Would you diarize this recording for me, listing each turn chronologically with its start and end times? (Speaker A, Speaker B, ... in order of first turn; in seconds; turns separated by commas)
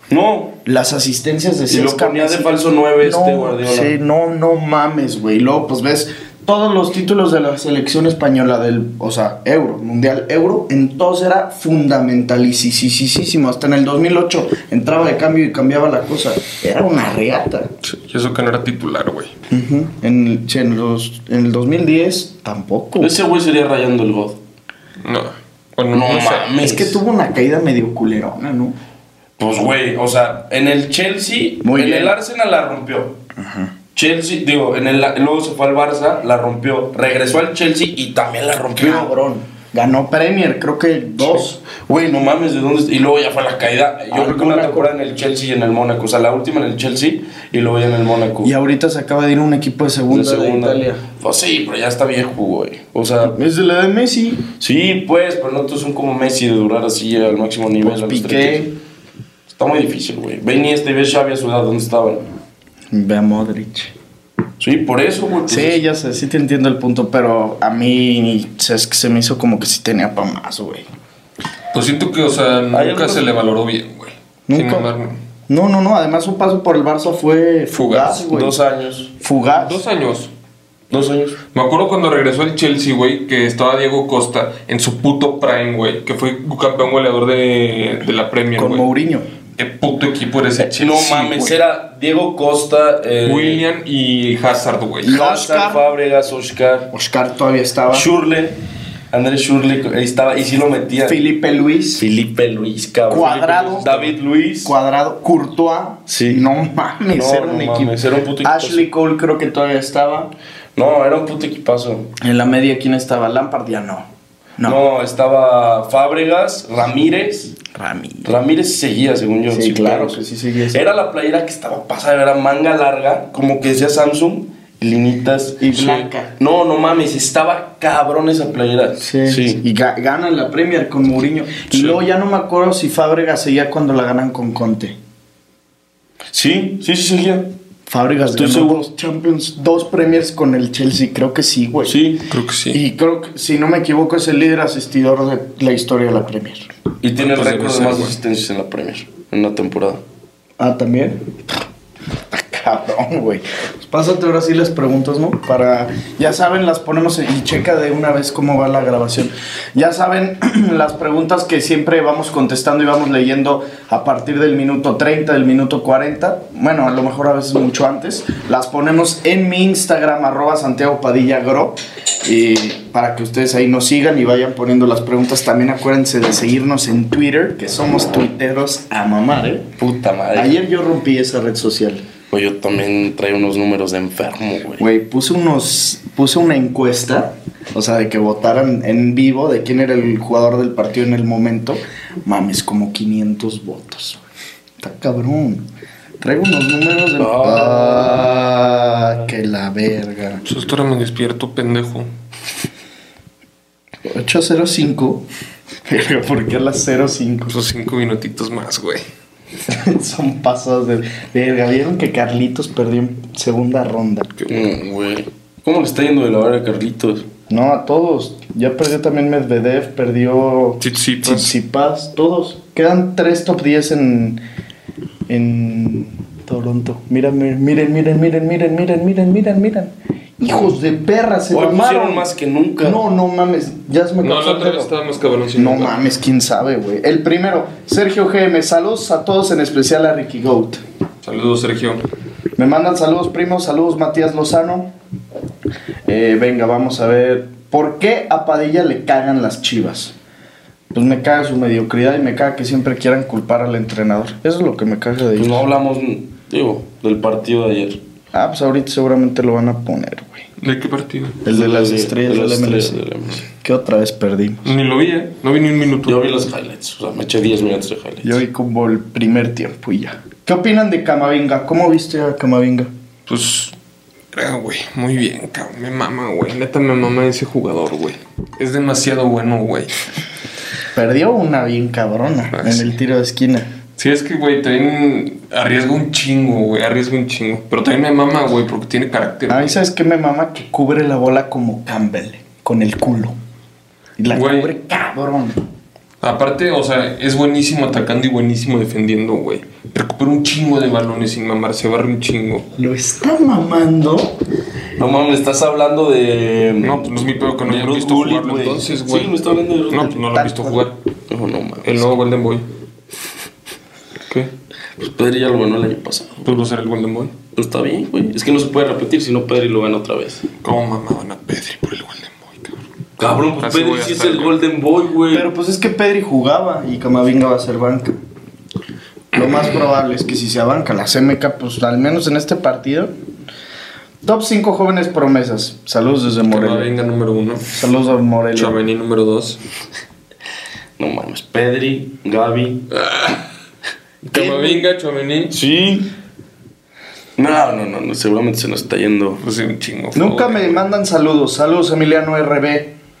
Speaker A: 0.1-0.6, Speaker B: 0.6-17.7, Speaker A: 1.7-3.9, Speaker C: 17.8-19.3, Speaker B: 19.5-23.1, Speaker A: 23.0-24.4, Speaker C: 25.0-26.5, Speaker A: 25.9-27.0, Speaker B: 26.6-28.8, Speaker A: 29.4-33.2, Speaker B: 31.6-32.1, Speaker B: 33.4-33.7, Speaker A: 33.9-39.1, Speaker B: 38.8-41.6, Speaker A: 41.7-48.5, Speaker B: 44.1-44.9, Speaker B: 48.4-51.0, Speaker A: 50.1-53.4, Speaker B: 53.2-54.5, Speaker A: 54.6-58.7, Speaker B: 57.8-58.7, Speaker A: 59.5-62.3, Speaker B: 62.9-63.9, Speaker A: 64.6-65.8, Speaker B: 65.5-70.9, Speaker C: 71.7-75.2, Speaker A: 72.7-73.3, Speaker B: 74.5-74.9, Speaker B: 75.5-78.5, Speaker C: 77.7-78.2, Speaker A: 78.3-79.1, Speaker B: 79.2-79.8, Speaker C: 79.6-80.3, Speaker A: 80.9-81.4, Speaker C: 81.5-88.9, Speaker B: 88.5-89.3, Speaker C: 89.6-91.5, Speaker A: 90.7-93.6, Speaker B: 91.2-91.5, Speaker C: 93.2-95.2, Speaker B: 95.0-95.8, Speaker A: 95.1-96.9, Speaker B: 96.9-98.1, Speaker A: 97.9-98.6, Speaker A: 99.1-101.2, Speaker B: 101.0-102.0, Speaker A: 102.0-104.7, Speaker B: 103.1-104.1, Speaker B: 104.6-110.3, Speaker A: 106.1-106.4, Speaker A: 107.1-108.9, Speaker A: 110.8-112.1, Speaker B: 112.2-114.8, Speaker A: 114.6-117.6, Speaker B: 117.7-118.3, Speaker A: 118.2-129.6, Speaker B: 119.5-120.8, Speaker B: 125.6-126.3, Speaker B: 129.0-135.0, Speaker A: 136.3-137.5, Speaker B: 137.9-142.0, Speaker A: 138.3-138.8, Speaker A: 141.8-142.2, Speaker C: 142.3-142.8, Speaker B: 142.7-146.7, Speaker A: 147.0-150.0, Speaker C: 147.2-148.2, Speaker B: 150.6-151.3, Speaker B: 152.3-179.7, Speaker A: 179.8-180.6, Speaker B: 180.3-182.0, Speaker A: 182.3-184.8, Speaker B: 184.8-194.2, Speaker B: 194.8-195.7, Speaker B: 196.2-200.4, Speaker A: 197.2-198.4, Speaker C: 200.4-202.1, Speaker B: 204.1-205.2, Speaker B: 205.8-207.6, Speaker C: 207.5-209.0, Speaker B: 209.7-214.3, Speaker C: 214.4-214.7, Speaker A: 214.5-217.2, Speaker B: 217.5-224.4, Speaker C: 220.8-221.5, Speaker B: 225.3-232.3, Speaker A: 231.5-233.0, Speaker B: 232.8-234.9, Speaker C: 234.2-235.9, Speaker B: 235.5-240.8, Speaker C: 241.2-242.0, Speaker B: 242.6-244.9, Speaker B: 246.1-250.1, Speaker B: 250.9-255.6, Speaker A: 255.3-258.0, Speaker B: 258.3-260.5, Speaker C: 260.6-261.4, Speaker B: 261.4-264.7, Speaker A: 261.5-263.4, Speaker C: 264.6-266.3, Speaker A: 266.0-268.4, Speaker B: 268.2-272.9, Speaker C: 273.3-273.7, Speaker C: 274.3-279.9, Speaker B: 280.9-283.7, Speaker C: 282.5-282.9, Speaker C: 284.0-289.8, Speaker B: 289.5-293.4, Speaker B: 294.2-295.6, Speaker C: 294.3-294.7, Speaker C: 296.2-302.6, Speaker B: 302.8-304.4, Speaker A: 305.0-310.1, Speaker C: 306.8-309.4, Speaker C: 309.9-311.0, Speaker B: 310.1-310.9, Speaker A: 311.3-312.1, Speaker C: 311.8-312.6, Speaker A: 315.0-316.5, Speaker C: 316.4-317.3, Speaker A: 317.5-320.4, Speaker C: 320.6-322.8, Speaker A: 323.2-325.5, Speaker C: 323.6-324.6, Speaker B: 325.3-328.2, Speaker B: 329.3-333.1, Speaker B: 334.2-336.9, Speaker C: 336.5-337.7, Speaker B: 337.7-338.8, Speaker C: 338.5-339.6, Speaker A: 341.0-342.9, Speaker C: 342.9-343.4, Speaker C: 344.2-345.5, Speaker A: 344.4-344.8, Speaker A: 345.5-346.1, Speaker A: 347.4-349.4, Speaker C: 349.4-350.8, Speaker B: 350.1-352.9